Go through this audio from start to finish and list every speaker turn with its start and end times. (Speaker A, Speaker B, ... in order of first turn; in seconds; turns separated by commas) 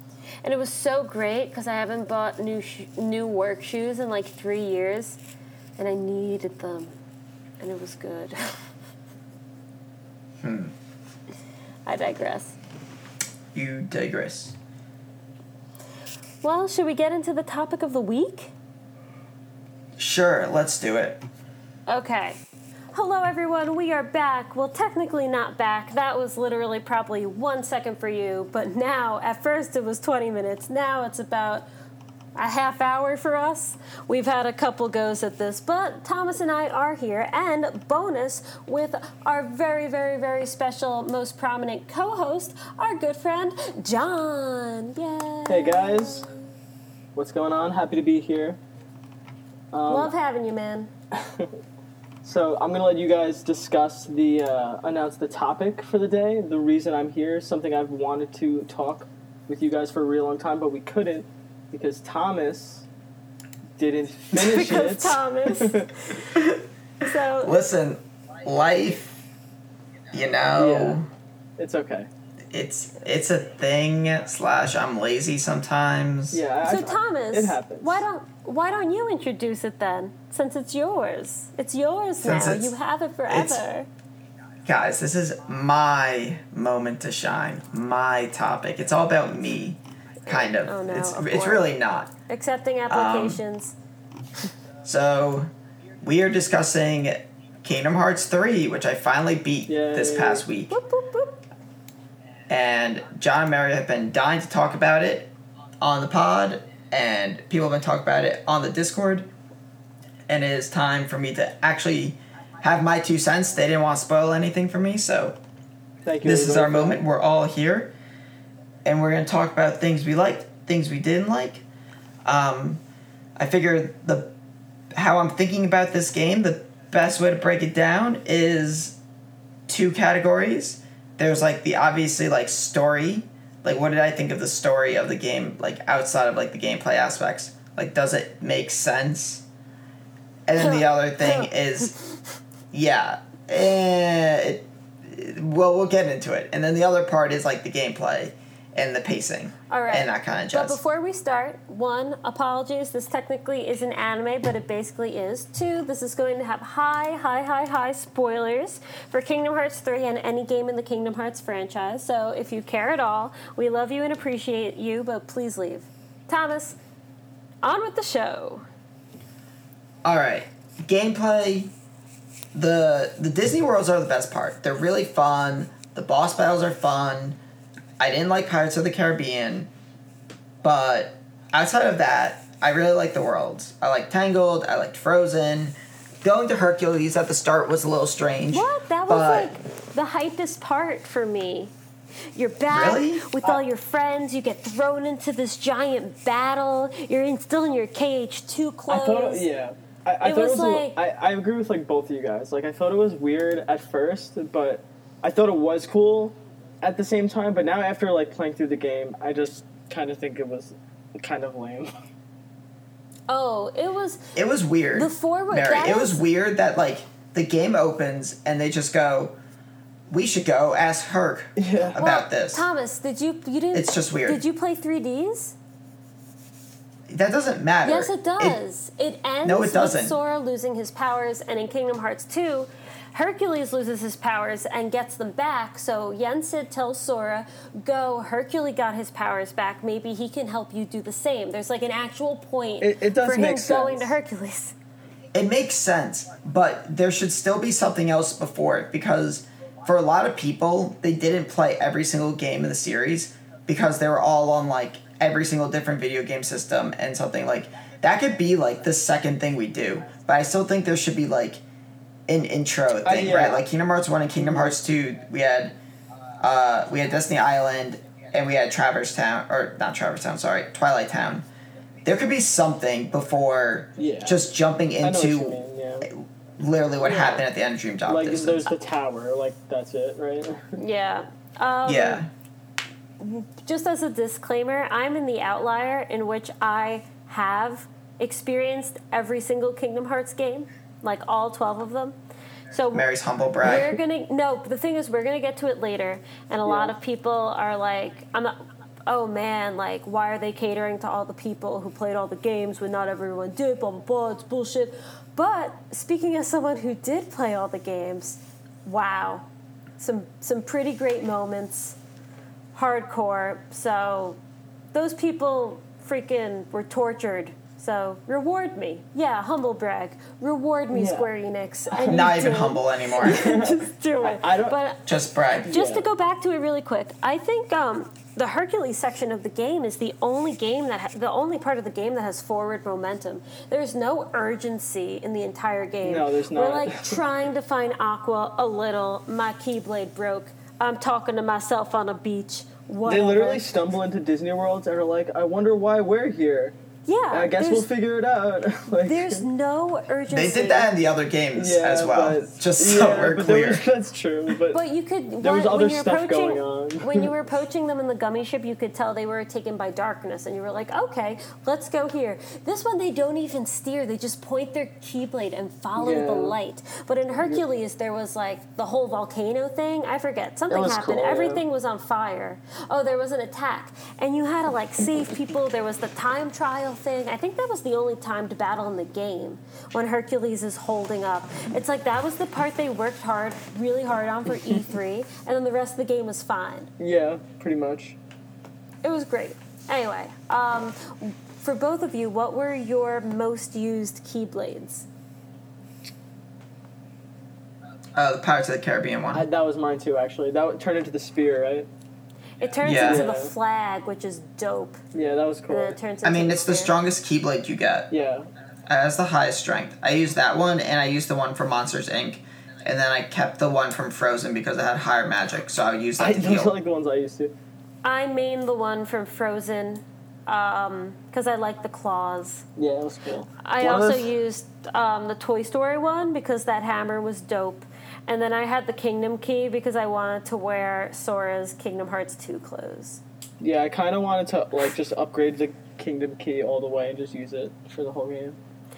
Speaker A: 0.4-5.2, Speaker A: 5.8-6.9, Speaker A: 7.6-8.5, Speaker B: 10.4-10.7, Speaker A: 11.8-12.6, Speaker B: 13.5-14.6, Speaker A: 16.4-18.5, Speaker B: 20.0-21.2, Speaker A: 21.9-22.4, Speaker A: 22.9-31.6, Speaker A: 32.4-46.5, Speaker C: 45.5-46.3, Speaker C: 47.1-48.6, Speaker C: 49.7-50.1, Speaker A: 49.9-50.9, Speaker C: 51.2-51.5, Speaker C: 52.2-62.9, Speaker C: 63.8-65.9, Speaker A: 64.3-66.3, Speaker B: 66.3-66.6, Speaker A: 67.0-67.5, Speaker B: 67.4-69.2, Speaker B: 70.1-71.1, Speaker C: 70.6-71.0, Speaker C: 71.6-72.1, Speaker B: 72.5-76.4, Speaker C: 76.3-78.0, Speaker A: 76.6-83.9, Speaker B: 82.2-82.7, Speaker B: 83.3-83.6, Speaker B: 84.7-92.1, Speaker A: 90.3-91.7, Speaker A: 92.3-93.7, Speaker B: 92.9-93.4, Speaker B: 94.8-95.5, Speaker B: 96.0-100.8, Speaker C: 99.7-100.4, Speaker A: 100.7-101.4, Speaker B: 102.5-109.3, Speaker B: 110.3-115.4, Speaker C: 116.0-117.0, Speaker B: 116.2-117.9, Speaker B: 118.8-121.6, Speaker B: 122.2-122.8, Speaker B: 123.4-124.3, Speaker B: 124.9-129.0, Speaker B: 129.7-139.4, Speaker B: 140.5-141.9, Speaker A: 140.6-142.0, Speaker B: 142.7-150.8, Speaker A: 149.7-166.8, Speaker A: 167.6-168.6, Speaker B: 170.0-171.7, Speaker B: 172.5-177.4, Speaker B: 178.0-179.7, Speaker B: 180.6-189.5, Speaker A: 188.5-191.7, Speaker A: 192.3-199.5, Speaker B: 192.7-193.3, Speaker C: 198.9-211.9, Speaker A: 200.2-200.9, Speaker A: 213.3-214.3, Speaker B: 214.3-219.4, Speaker A: 214.9-216.2, Speaker B: 220.1-222.7, Speaker C: 221.6-222.0, Speaker A: 221.9-225.5, Speaker B: 223.7-224.4, Speaker B: 227.1-228.6, Speaker A: 227.8-244.7, Speaker B: 229.4-230.2, Speaker C: 242.8-244.1, Speaker B: 245.3-261.6, Speaker B: 262.3-265.7, Speaker C: 263.0-263.6, Speaker C: 264.4-264.8, Speaker B: 266.4-271.4, Speaker B: 272.0-278.7, Speaker C: 274.0-274.4, Speaker C: 275.0-276.1, Speaker C: 277.0-277.4, Speaker C: 278.1-280.8, Speaker A: 280.8-282.2, Speaker B: 281.8-282.3, Speaker A: 283.2-292.1, Speaker A: 292.7-293.1, Speaker B: 292.9-293.9, Speaker A: 293.6-298.5, Speaker C: 296.6-296.9, Speaker A: 299.1-309.5, Speaker A: 310.0-312.0, Speaker A: 312.7-314.4, Speaker A: 314.9-325.1, Speaker C: 320.9-321.3, Speaker C: 321.9-322.3, Speaker B: 322.1-323.5, Speaker C: 323.2-324.8, Speaker B: 325.1-325.7, Speaker A: 325.6-343.9, Speaker C: 325.6-326.1, Speaker C: 336.0-337.2, Speaker C: 343.1-346.8, Speaker A: 347.1-347.9, Speaker C: 347.3-349.4, Speaker A: 349.0-350.9, Speaker B: 350.3-353.8, Speaker C: 351.6-354.8, Speaker A: 354.7-386.9, Speaker C: 355.4-357.3, Speaker C: 366.0-366.6, Speaker C: 370.7-371.6, Speaker C: 387.0-388.1, Speaker A: 389.0-395.1, Speaker B: 398.1-399.4, Speaker C: 399.3-401.9, Speaker A: 402.6-405.0, Speaker B: 402.8-403.2, Speaker C: 402.9-403.5, Speaker C: 405.1-406.0, Speaker A: 405.7-406.9, Speaker B: 406.2-408.1, Speaker C: 408.1-408.5, Speaker B: 408.9-416.7, Speaker C: 416.2-417.5, Speaker A: 418.0-422.6, Speaker C: 422.8-424.3, Speaker A: 423.6-433.2, Speaker C: 433.6-438.6